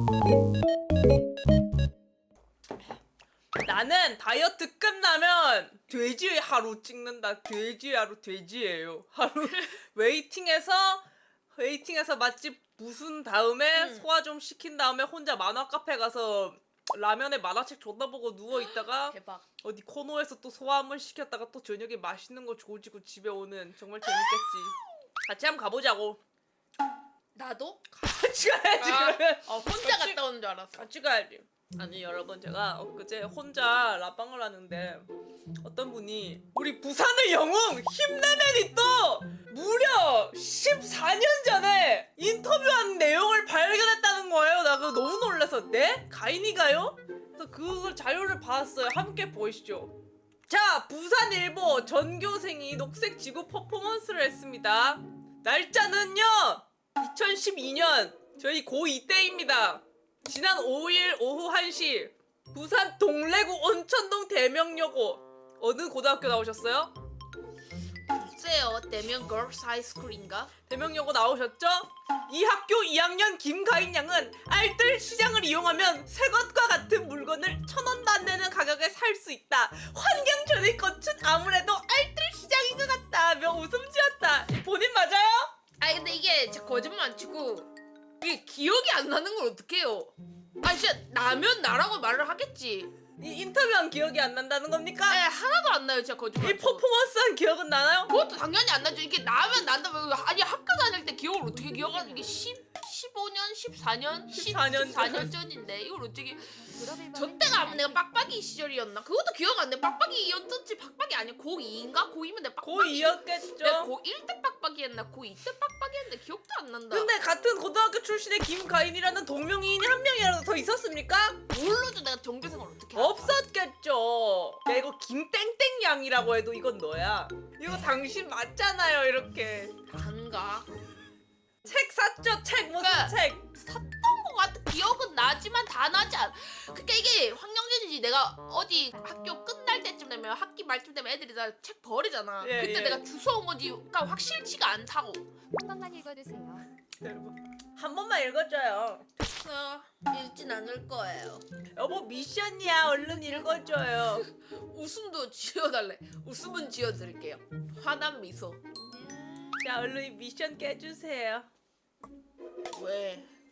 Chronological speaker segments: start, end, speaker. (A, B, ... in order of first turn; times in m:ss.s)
0:03.6-0:26.2 A
0:13.7-0:14.0 B
0:18.7-0:19.4 B
0:27.3-0:27.8 B
0:27.9-0:30.2 A
0:28.8-0:30.9 B
0:30.7-0:35.1 A
0:35.6-0:49.9 A
0:50.5-1:06.9 A
1:08.1-1:10.5 B
1:10.7-1:25.5 A
1:25.8-1:32.9 B
1:33.2-1:35.2 A
1:35.1-1:36.8 B
1:36.4-1:38.1 A
1:38.1-1:57.1 B
1:41.8-1:42.2 C
1:44.3-1:45.3 A
1:46.6-1:48.0 C
1:52.6-1:53.9 A
1:56.9-2:01.4 A
2:01.5-2:03.4 B
2:02.9-2:09.7 A
2:09.9-2:10.7 B
2:11.6-2:13.4 A
2:12.8-2:25.3 B
2:22.4-2:23.0 A
2:25.5-2:26.6 C
2:27.0-2:29.1 A
2:29.2-2:31.4 B
2:31.7-2:34.3 A
2:34.0-2:39.6 B
2:39.6-2:41.5 A
2:42.7-2:43.3 B